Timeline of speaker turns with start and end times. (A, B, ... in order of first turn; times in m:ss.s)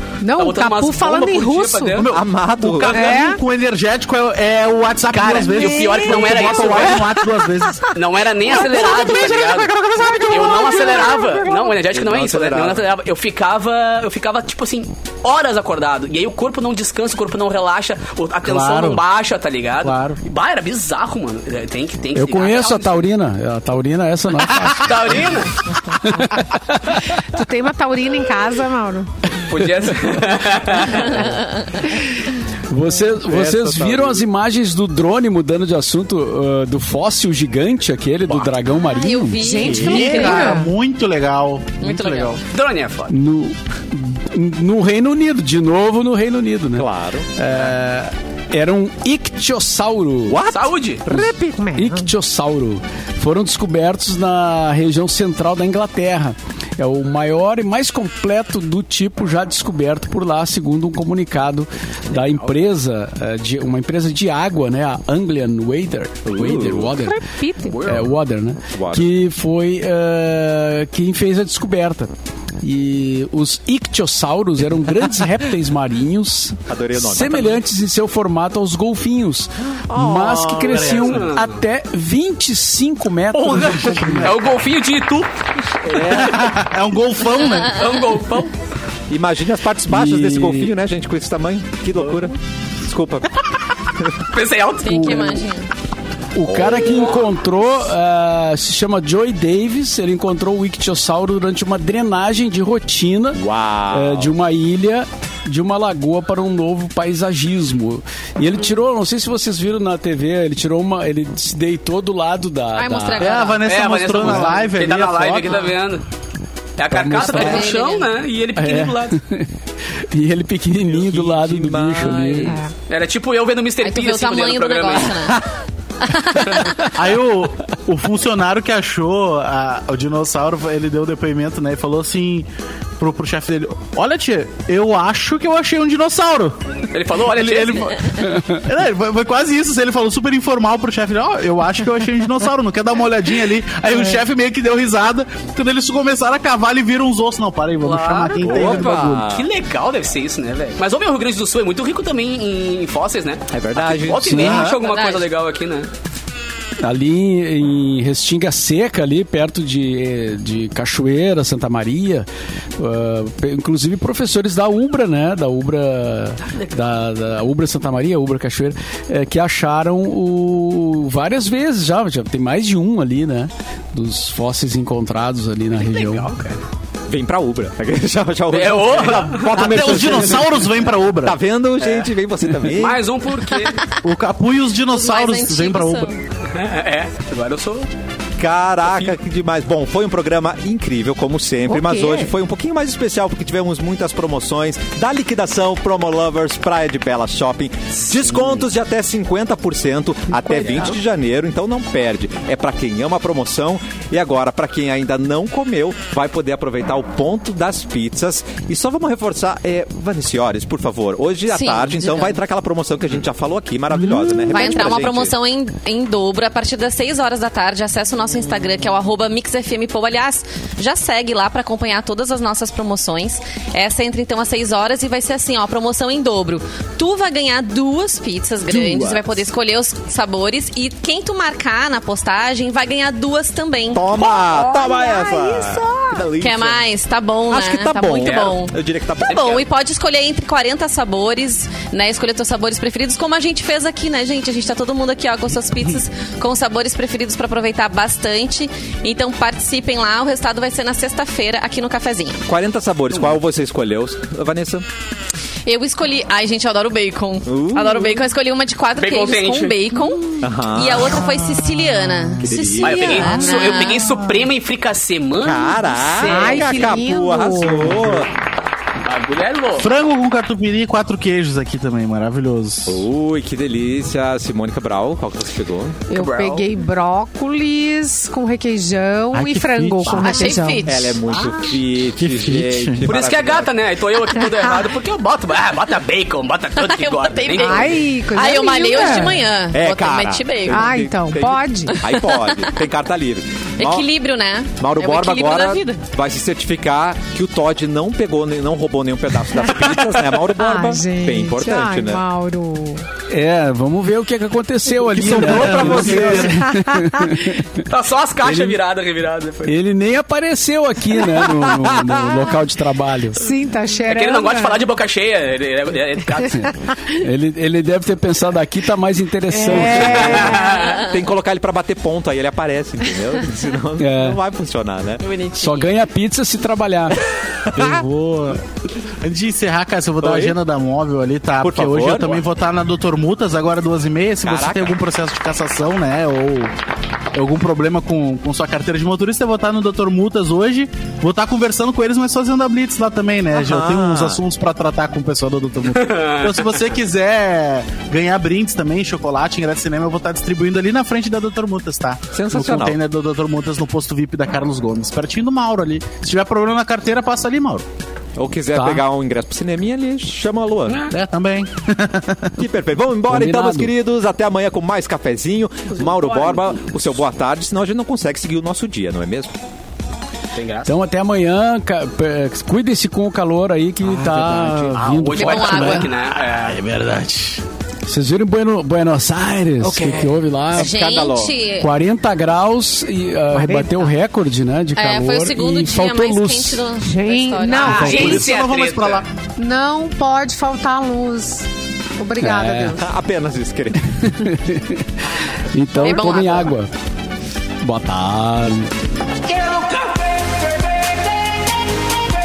0:00.2-0:02.1 A
0:00.4-0:02.1 B
0:01.9-0:11.0 C
0:02.1-0:03.0 D
0:02.9-0:03.4 A
0:05.1-0:07.2 B
0:05.4-0:07.9 A
0:07.9-0:09.7 B
0:08.6-0:11.7 A
0:10.3-0:23.1 B
0:11.9-0:12.8 D
0:18.4-0:19.0 C
0:19.8-0:20.2 C
0:22.1-0:25.4 E
0:24.8-0:25.6 B
0:26.0-0:27.0 E
0:27.3-0:29.1 A
0:29.4-0:31.3 B
0:30.9-0:31.8 F
0:32.7-0:39.5 E
0:33.1-0:34.2 D
0:38.3-0:38.6 D
0:38.8-0:40.6 F
0:39.4-0:40.7 A
0:39.6-0:42.4 C
0:41.8-0:42.4 F
0:42.5-0:43.1 B
0:43.1-0:50.4 E
0:46.8-0:47.3 D
0:50.3-0:51.6 D
0:50.5-0:51.0 B
0:51.1-0:52.1 A
0:51.1-1:07.2 E
1:06.3-1:07.0 D
1:07.0-1:07.9 A
1:07.7-1:08.1 B
1:07.8-1:24.5 E
1:08.7-1:09.2 D
1:16.7-1:17.6 D
1:20.2-1:20.6 D
1:20.4-1:21.3 C
1:21.0-1:21.6 B
1:23.3-1:25.3 B
1:25.9-1:26.3 B
1:25.9-1:26.4 D
1:26.1-1:27.8 C
1:27.5-1:28.5 B
1:29.1-1:33.4 D
1:29.9-1:30.7 E
1:34.3-1:35.4 B
1:34.8-1:35.7 F
1:34.9-1:35.3 E
1:36.4-1:53.4 E
1:36.4-1:37.2 D
1:43.4-1:44.3 D
1:52.8-1:53.6 F
1:53.2-1:55.8 C
1:53.6-1:56.0 B
1:54.2-1:54.6 E
1:56.8-1:59.2 B
1:56.9-1:57.8 E
1:57.1-1:58.1 F
1:58.6-1:59.5 E
2:00.1-2:02.6 E
2:00.8-2:02.6 D
2:02.9-2:05.4 B
2:03.8-2:05.4 F
2:06.0-2:06.9 F
2:06.9-2:29.3 C
2:16.9-2:17.9 B
2:27.8-2:35.9 B
2:28.4-2:29.5 D
2:33.5-2:34.7 D
2:34.3-2:34.6 E
2:34.4-2:34.8 C
2:34.7-2:35.3 F
2:36.8-2:56.3 E
2:55.8-2:56.6 B
2:57.1-3:00.7 D
2:58.5-2:59.8 B
2:59.5-3:01.4 C
3:01.2-3:03.0 D
3:01.8-3:02.1 B
3:02.7-3:03.8 B
3:03.5-3:03.8 F
3:04.0-3:06.1 C
3:04.9-3:06.2 F
3:06.5-3:07.9 B
3:08.4-3:35.4 D
3:08.8-3:09.2 B
3:11.7-3:12.3 A
3:20.5-3:20.8 A
3:20.5-3:21.0 B
3:31.5-3:32.4 F
3:34.4-3:54.0 F
3:48.7-3:49.4 D
3:53.9-3:56.8 D
3:54.2-3:56.2 A
3:56.4-4:12.5 F
3:57.5-3:59.6 D
3:58.1-3:58.6 B
3:59.2-3:59.6 B
4:12.5-4:14.8 D
4:15.6-4:24.2 F
4:17.5-4:18.2 D
4:19.0-4:19.8 B
4:20.4-4:21.3 D
4:22.4-4:23.5 D
4:22.8-4:26.9 B
4:23.2-4:24.3 A
4:25.4-4:28.3 D
4:26.3-4:28.1 A
4:29.0-4:29.9 B
4:29.8-4:33.1 C
4:32.9-4:36.4 D
4:36.1-4:40.9 A
4:36.2-4:36.7 B
4:39.3-4:40.6 C
4:40.1-4:41.5 F
4:40.8-4:43.7 D
4:42.2-4:43.1 C
4:43.0-4:48.0 B
4:44.4-4:44.7 A
4:46.8-4:51.0 F
4:47.6-4:49.4 A
4:49.7-4:54.1 D
4:50.7-4:52.0 A
4:51.9-4:52.8 F
4:53.8-4:56.0 F
4:54.8-5:02.2 D
5:00.6-5:03.1 A
5:03.3-5:07.8 E
5:05.0-5:06.6 D
5:06.2-5:07.3 A
5:07.9-5:09.8 B
5:08.4-5:08.8 E
5:09.6-5:13.4 E
5:11.5-5:12.5 D
5:13.4-5:14.8 A
5:14.0-5:16.7 B
5:17.2-5:20.5 E
5:19.5-5:20.9 A
5:19.9-5:21.0 B
5:20.0-5:25.3 D
5:20.6-5:21.2 F
5:24.0-5:24.4 E
5:25.2-5:25.9 F
5:25.6-5:27.2 E
5:27.7-5:28.0 D
5:27.8-5:28.6 C
5:29.2-5:36.7 C
5:30.2-5:30.6 D
5:31.6-5:32.4 D
5:34.4-5:35.0 D
5:37.3-5:57.9 C
5:43.6-5:44.4 D
5:45.9-5:46.7 B
5:52.3-5:53.0 D
5:58.4-6:01.1 D
5:58.7-5:59.0 E
6:00.9-6:01.1 B
6:01.1-6:02.6 C
6:02.6-6:09.5 D
6:03.3-6:03.9 E
6:10.6-6:10.9 B
6:10.9-6:16.1 E
6:14.1-6:15.0 C
6:15.0-6:16.8 B
6:15.4-6:16.1 F
6:15.6-6:17.6 C
6:18.1-6:20.9 E
6:20.8-6:21.6 D
6:20.8-6:21.9 F
6:21.8-6:26.8 E
6:23.5-6:24.1 A
6:25.0-6:28.4 F
6:27.0-6:28.5 A
6:27.8-6:29.2 B
6:27.9-6:29.3 C
6:29.6-6:33.1 A
6:32.4-6:33.0 E
6:33.0-6:34.2 D
6:34.1-6:35.2 E
6:35.7-6:36.9 E
6:36.0-6:36.7 F
6:36.0-6:36.4 A
6:37.8-6:38.9 E